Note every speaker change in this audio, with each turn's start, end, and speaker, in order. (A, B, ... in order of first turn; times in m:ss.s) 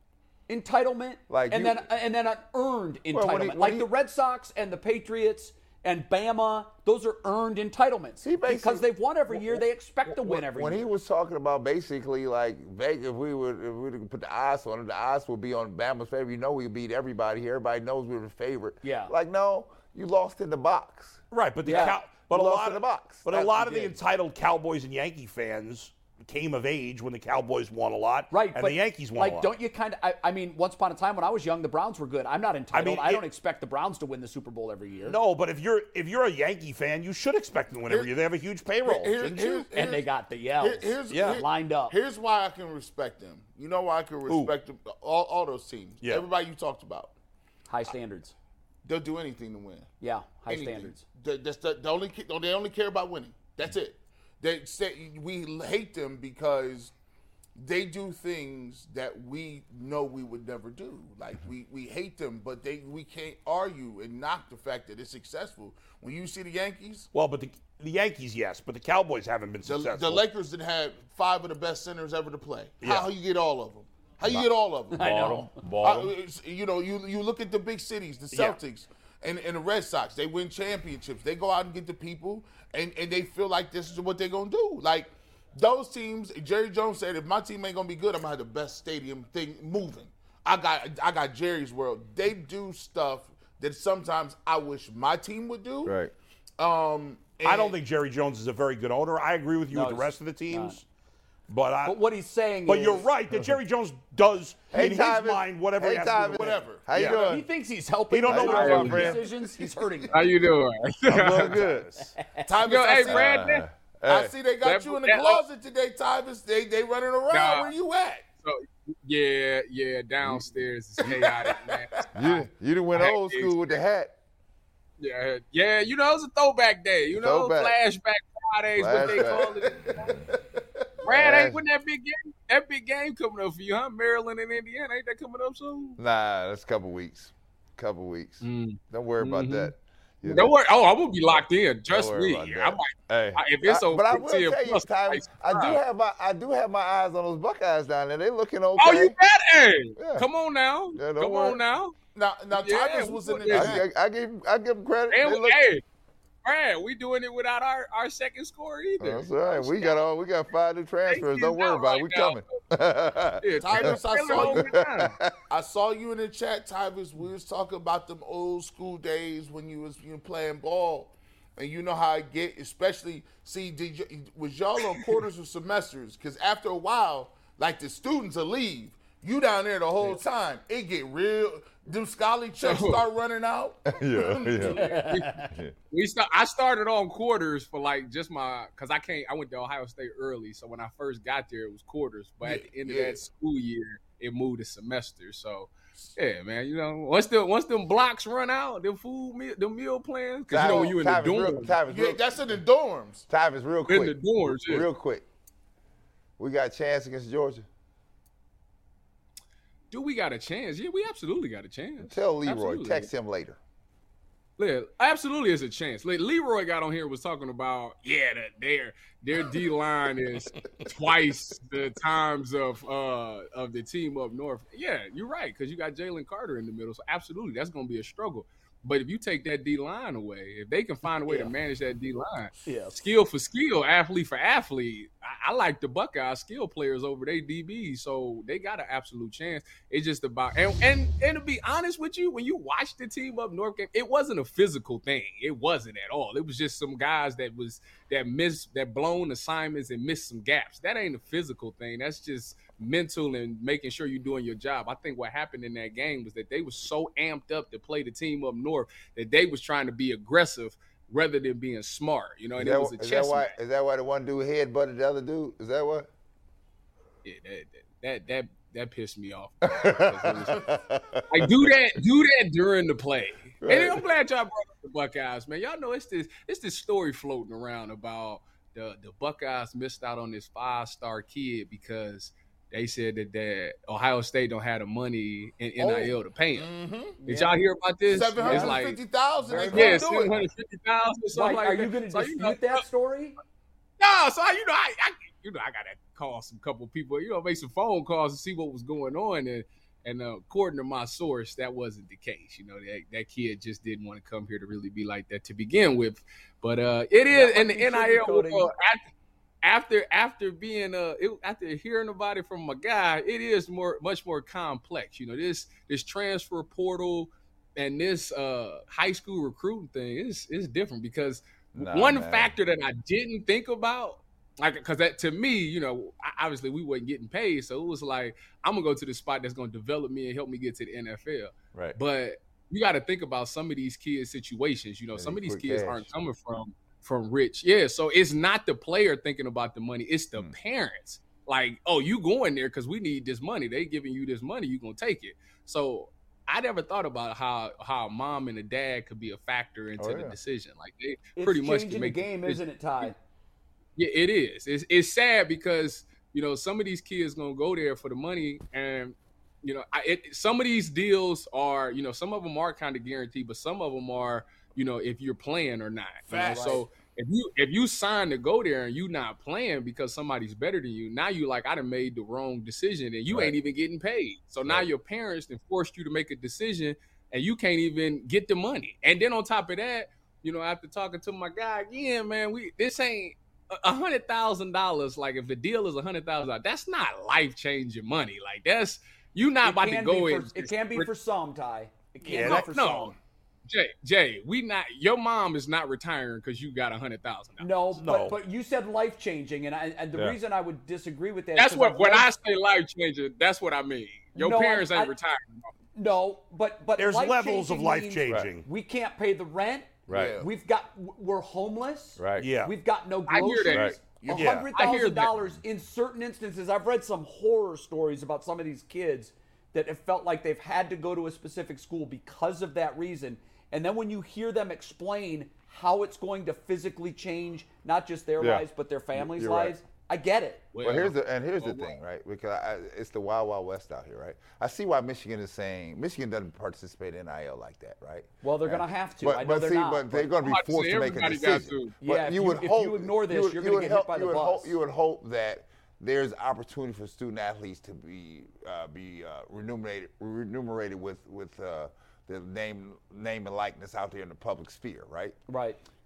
0:00.5-0:10.9 A
0:01.3-0:01.9 B
0:03.1-0:03.9 B
0:08.2-0:23.4 B
0:18.8-0:19.1 A
0:21.3-0:29.5 C
0:21.6-0:22.0 A
0:23.3-0:24.0 A
0:28.3-0:35.2 A
0:32.7-0:33.2 C
0:35.0-0:39.7 C
0:38.8-0:47.1 D
0:39.7-0:41.9 A
0:41.1-0:41.4 C
0:44.2-0:44.5 C
0:46.0-0:46.3 C
0:47.7-0:48.3 A
0:48.8-0:49.9 D
0:50.0-0:51.0 A
0:50.5-0:56.9 D
0:57.6-1:07.1 D
1:07.1-1:10.2 C
1:09.6-1:36.0 D
1:12.8-1:13.1 C
1:14.9-1:15.6 A
1:15.0-1:16.1 B
1:18.3-1:18.6 C
1:35.8-1:36.1 B
1:36.6-1:37.8 D
1:37.4-1:40.8 C
1:39.7-1:40.8 A
1:41.5-1:42.0 C
1:41.8-1:43.1 A
1:42.6-1:47.2 C
1:44.7-1:47.4 B
1:46.3-1:47.3 D
1:47.0-1:50.2 A
1:48.1-1:49.2 C
1:48.3-1:49.2 B
1:48.5-1:49.0 E
1:49.3-1:50.1 D
1:50.1-1:51.6 E
1:51.1-1:52.2 C
1:51.3-1:51.9 B
1:52.0-1:52.5 A
1:52.4-1:53.4 D
1:52.6-1:53.6 E
1:53.0-1:54.3 B
1:54.1-1:58.3 D
1:54.6-1:55.4 E
1:57.3-1:57.7 E
1:58.4-2:03.7 E
2:01.0-2:02.0 D
2:02.1-2:04.1 B
2:05.0-2:10.2 E
2:07.1-2:07.8 B
2:08.8-2:10.3 B
2:09.0-2:10.2 D
2:11.0-2:16.0 E
2:11.1-2:11.6 B
2:16.0-2:20.5 B
2:18.4-2:19.7 E
2:20.2-2:25.8 E
2:21.9-2:29.2 B
2:28.8-2:32.0 E
2:30.0-2:30.2 B
2:30.9-2:31.6 B
2:32.1-2:33.8 D
2:32.5-2:33.8 E
2:33.5-2:35.6 B
2:35.1-2:35.8 E
2:36.4-2:40.0 E
2:39.0-2:45.3 B
2:41.1-2:42.6 E
2:43.4-2:45.2 E
2:43.6-2:44.8 D
2:45.5-3:05.0 D
3:02.6-3:03.0 E
3:03.9-3:04.8 B
3:04.7-3:21.8 E
3:04.8-3:05.5 A
3:05.4-3:05.7 B
3:12.4-3:13.2 D
3:20.5-3:22.6 B
3:20.6-3:21.0 D
3:21.9-3:23.2 D
3:23.3-3:25.2 B
3:23.9-3:24.9 E
3:26.4-3:27.6 B
3:29.9-3:33.1 E
3:32.0-3:33.6 B
3:34.6-4:23.5 E
3:51.2-3:51.5 A
3:52.6-3:53.0 A
4:22.6-4:26.1 B
4:27.2-4:30.6 E
4:29.7-4:31.5 B
4:31.3-4:46.7 E
4:33.6-4:34.0 B
4:45.8-4:46.0 A
4:46.5-4:47.2 D
4:47.2-4:47.6 A
4:47.2-4:49.0 E
4:48.1-4:50.4 D
4:48.4-4:48.8 A
4:49.4-4:50.2 A
4:49.7-4:52.8 E
4:51.3-4:53.4 A
4:54.0-5:09.1 E
5:07.3-5:08.7 A
5:09.6-5:53.1 E
5:21.7-5:22.5 B
5:35.2-5:36.1 B
5:50.0-5:50.4 B
5:51.4-5:53.2 A
5:54.0-6:31.1 E
6:06.3-6:06.8 D
6:06.3-6:06.8 A
6:13.3-6:13.5 B
6:29.6-6:33.2 A
6:32.2-6:32.7 C
6:32.4-6:33.1 E
6:33.7-6:37.7 E
6:37.6-6:42.3 A
6:37.9-6:38.4 C
6:41.6-6:45.7 E
6:44.3-6:45.1 A
6:45.9-7:10.7 A
6:47.0-6:48.6 C
6:50.1-6:50.4 B
6:50.1-6:50.5 D
6:52.2-6:52.5 B
6:52.4-6:52.7 C
6:53.3-6:53.9 E
6:53.7-6:54.0 B
6:54.1-6:54.7 D
6:54.3-6:54.7 C
6:54.7-6:55.3 E
7:08.4-7:09.8 B
7:10.7-7:11.9 E
7:10.8-7:35.4 B
7:18.4-7:20.4 A
7:20.4-7:22.0 E
7:22.0-7:24.8 A
7:35.5-7:35.8 A